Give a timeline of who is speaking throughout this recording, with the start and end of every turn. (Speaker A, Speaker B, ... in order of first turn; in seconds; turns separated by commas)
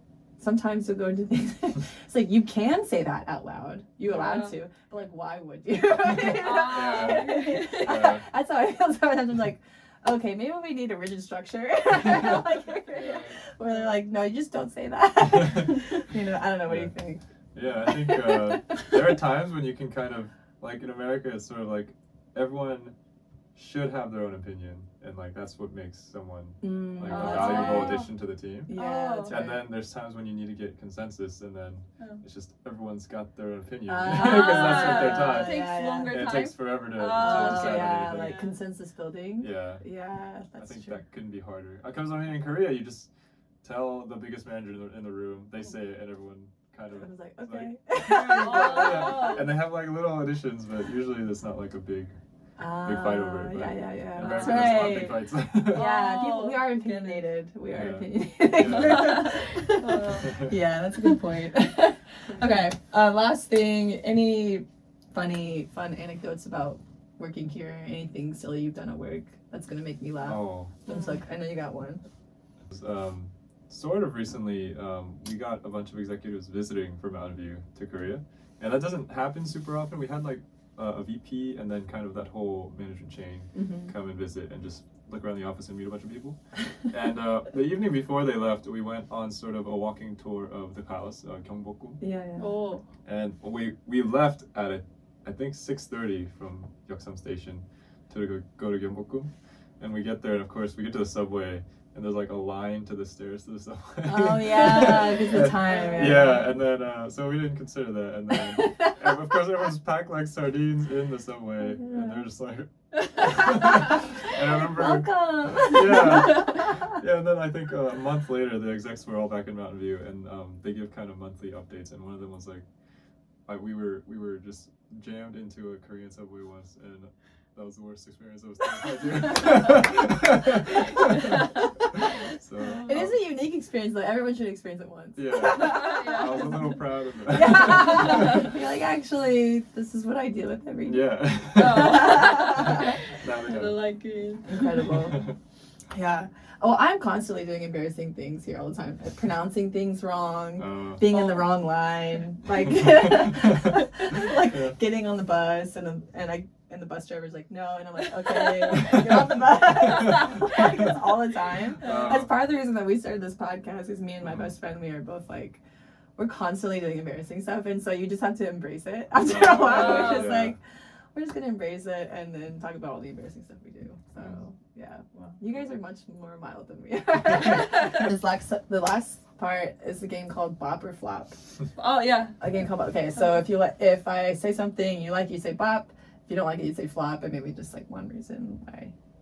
Speaker A: 0.4-17.2, Speaker B: 4.1-4.5, Speaker B: 6.3-8.1, Speaker C: 6.6-8.2, Speaker C: 12.9-13.4, Speaker C: 16.6-16.9, Speaker C: 17.6-22.9, Speaker A: 17.9-19.0, Speaker C: 23.6-38.4, Speaker A: 26.6-28.1, Speaker B: 27.1-28.1, Speaker A: 28.7-29.7, Speaker B: 28.7-29.4, Speaker A: 33.9-36.3, Speaker B: 34.1-38.6, Speaker A: 37.1-41.0, Speaker C: 39.4-39.8, Speaker C: 40.6-43.1, Speaker C: 43.6-52.2, Speaker A: 47.0-49.4, Speaker B: 48.4-49.5, Speaker A: 52.6-72.0, Speaker C: 52.8-55.9, Speaker B: 54.2-57.2, Speaker C: 57.7-59.3, Speaker B: 58.8-60.4, Speaker C: 60.2-60.5, Speaker C: 70.2-70.7, Speaker B: 70.9-71.2, Speaker C: 72.7-86.4, Speaker A: 83.6-83.9, Speaker C: 86.9-92.0, Speaker A: 92.0-92.5, Speaker B: 92.4-92.8, Speaker C: 93.0-122.7, Speaker A: 104.1-106.5, Speaker B: 105.6-106.4, Speaker A: 108.6-108.9, Speaker A: 111.8-112.2, Speaker A: 113.5-116.9, Speaker C: 123.5-133.2, Speaker A: 129.2-130.0, Speaker A: 131.0-131.4, Speaker B: 132.6-133.1, Speaker A: 132.9-136.4, Speaker C: 135.2-138.5, Speaker B: 135.5-136.8, Speaker A: 137.3-141.1, Speaker B: 138.0-138.4, Speaker C: 140.8-143.8, Speaker B: 141.6-145.0, Speaker A: 141.6-142.9, Speaker A: 144.5-145.2, Speaker C: 144.9-145.3, Speaker A: 145.9-165.6, Speaker C: 150.6-151.1, Speaker B: 151.1-151.5, Speaker B: 158.4-159.0, Speaker B: 159.9-160.4, Speaker C: 160.0-160.6, Speaker C: 161.8-162.3, Speaker B: 161.8-162.2, Speaker C: 164.2-164.5, Speaker A: 166.2-170.6, Speaker C: 169.2-170.6, Speaker B: 169.6-170.4, Speaker A: 171.2-181.4, Speaker B: 175.1-175.4, Speaker B: 181.8-182.4, Speaker A: 182.4-188.9